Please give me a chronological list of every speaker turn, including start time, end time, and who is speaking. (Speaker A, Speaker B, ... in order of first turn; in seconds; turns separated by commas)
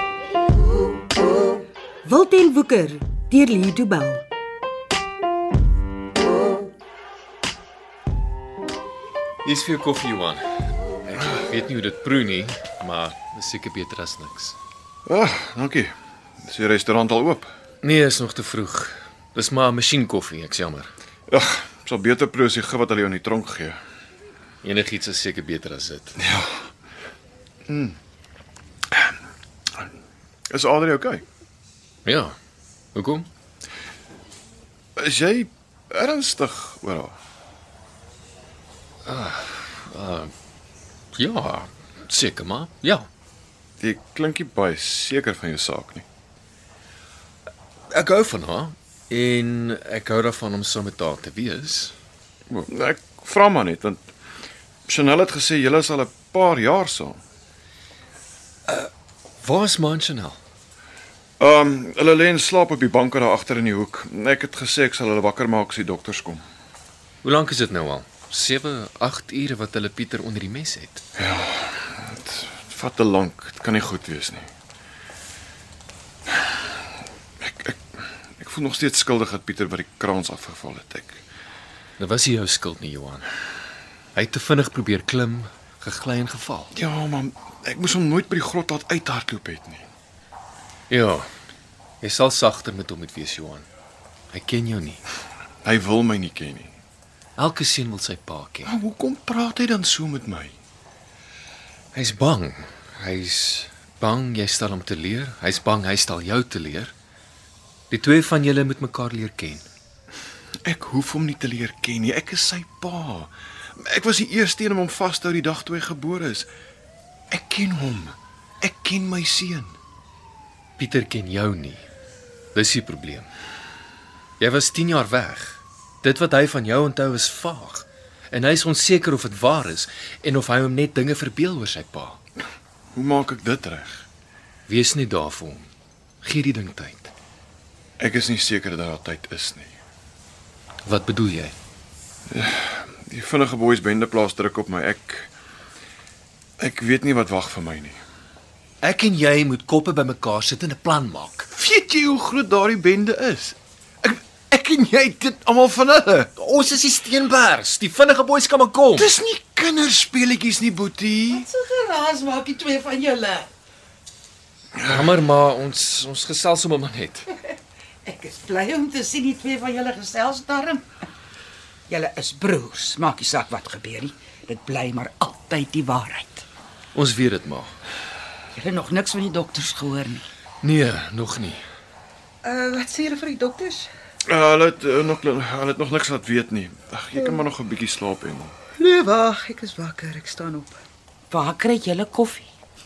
Speaker A: 2.0-4.2, Speaker B: 9.4-10.4, Speaker B: 11.0-14.6, Speaker C: 15.1-17.5, Speaker B: 17.8-20.9, Speaker C: 21.3-23.8, Speaker B: 24.6-26.2, Speaker C: 26.2-26.6, Speaker C: 27.7-28.0, Speaker C: 30.5-31.2, Speaker B: 32.0-32.3, Speaker B: 32.9-33.3, Speaker C: 35.0-37.1, Speaker B: 39.0-40.3, Speaker B: 41.1-43.1, Speaker C: 43.8-46.0, Speaker B: 47.9-51.9, Speaker C: 52.5-54.0, Speaker C: 54.9-57.2, Speaker B: 59.4-60.4, Speaker C: 61.4-66.4, Speaker B: 67.2-71.0, Speaker C: 71.2-74.5, Speaker C: 77.4-77.8, Speaker C: 78.4-81.2, Speaker B: 82.0-83.3, Speaker B: 84.1-86.7, Speaker C: 86.7-89.8, Speaker B: 90.9-91.3, Speaker B: 92.0-93.6, Speaker B: 94.3-95.0, Speaker C: 95.6-96.7, Speaker B: 97.4-98.7, Speaker C: 98.7-100.5, Speaker B: 101.9-106.9, Speaker B: 107.9-109.7, Speaker C: 110.6-116.5, Speaker C: 117.3-119.7, Speaker B: 120.8-121.8, Speaker B: 122.5-123.3, Speaker B: 124.4-132.2, Speaker C: 132.9-134.0, Speaker B: 134.7-135.7, Speaker B: 136.2-137.1, Speaker C: 138.0-139.7, Speaker B: 140.8-141.5, Speaker C: 142.3-145.3, Speaker C: 146.6-148.0, Speaker B: 148.8-151.5, Speaker C: 151.5-156.3, Speaker B: 156.4-159.1, Speaker C: 158.9-161.5, Speaker D: 161.3-163.5, Speaker B: 164.8-167.3, Speaker D: 168.0-170.8, Speaker D: 171.9-176.4, Speaker B: 176.9-177.7, Speaker D: 178.5-180.2, Speaker B: 180.6-181.6, Speaker E: 182.4-183.9, Speaker C: 184.2-188.5, Speaker E: 188.8-190.8, Speaker D: 191.3-192.5